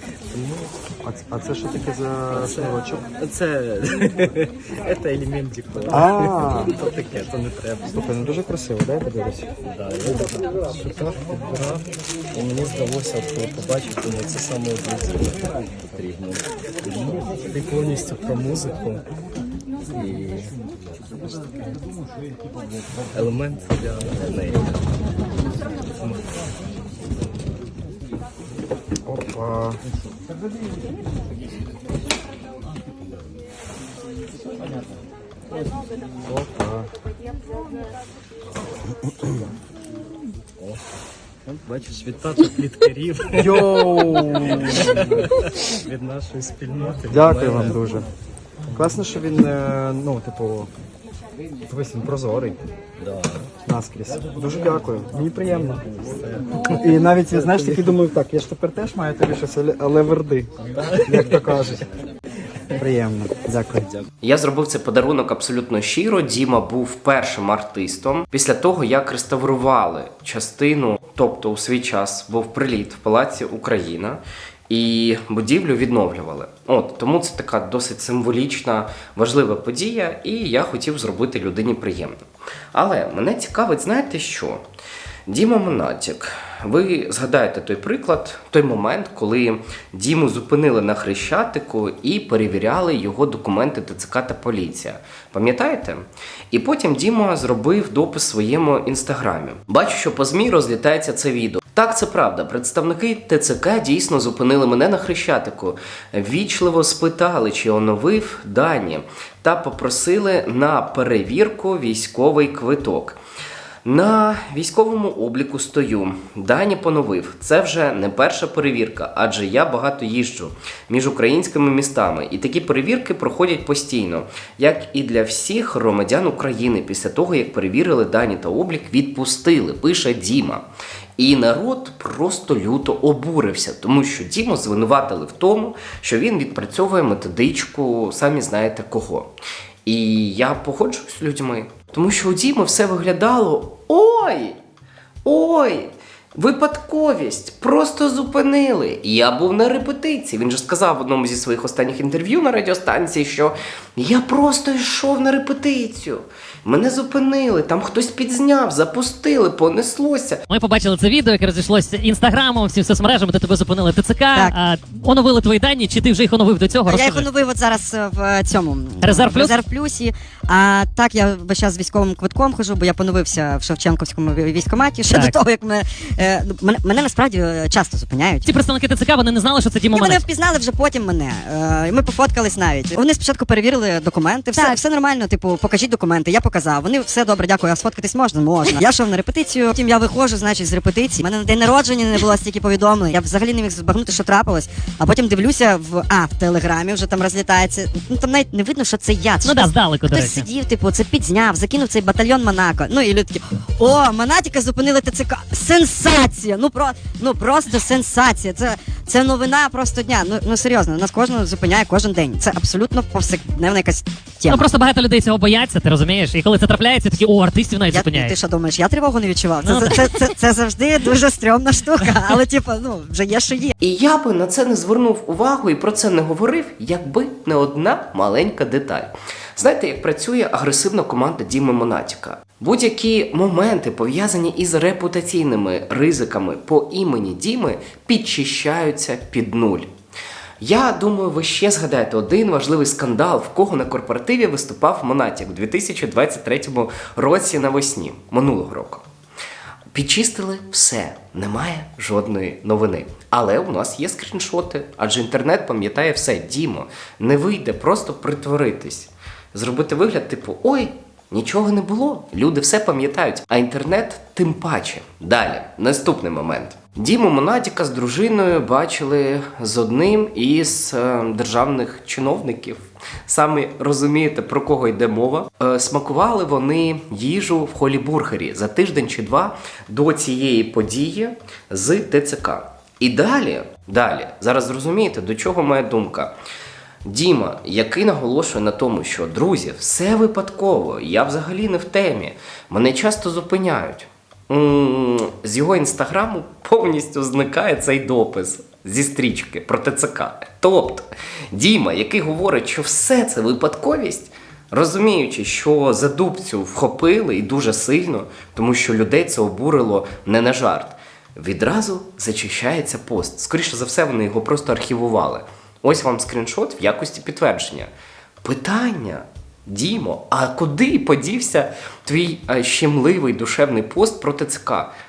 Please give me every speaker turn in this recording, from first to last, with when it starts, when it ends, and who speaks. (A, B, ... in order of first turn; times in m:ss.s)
0:00.3-0:00.7 A
0:01.0-0:03.1 B
0:02.3-0:08.0 A
0:05.9-0:06.8 B
0:07.9-0:09.5 B
0:09.6-0:19.0 A
0:19.9-0:20.6 A
0:23.1-0:24.9 A
0:25.9-0:26.3 A
0:29.1-0:29.8 B
0:36.3-0:36.9 B
0:41.5-0:43.7 A
0:43.4-0:45.3 B
0:45.7-0:47.8 A
0:47.1-0:48.1 B
0:48.7-0:50.7 B
0:51.7-0:52.6 B
0:53.0-0:53.5 A
0:53.6-0:55.9 B
0:56.0-0:56.6 A
0:56.8-1:01.9 B
0:57.4-0:57.7 A
1:00.8-1:01.4 A
1:02.7-1:04.0 B
1:04.2-1:22.2 C
1:22.7-1:24.6 C
1:25.3-1:53.2 C
1:53.8-2:10.7 C
2:11.2-2:19.3 C
2:19.8-2:24.6 C
2:25.2-2:40.4 C
2:40.5-2:47.3 D
2:46.9-2:58.5 E
2:49.0-2:49.5 D
2:55.1-2:55.4 D
2:58.4-3:00.2 D
2:59.9-3:34.6 E
3:19.4-3:20.5 D
3:34.5-3:38.3 D
3:37.9-3:43.7 E
3:39.6-3:40.2 D
3:43.8-3:59.9 C
4:00.6-4:09.0 C
4:09.9-4:46.3 C
4:47.0-5:24.9 C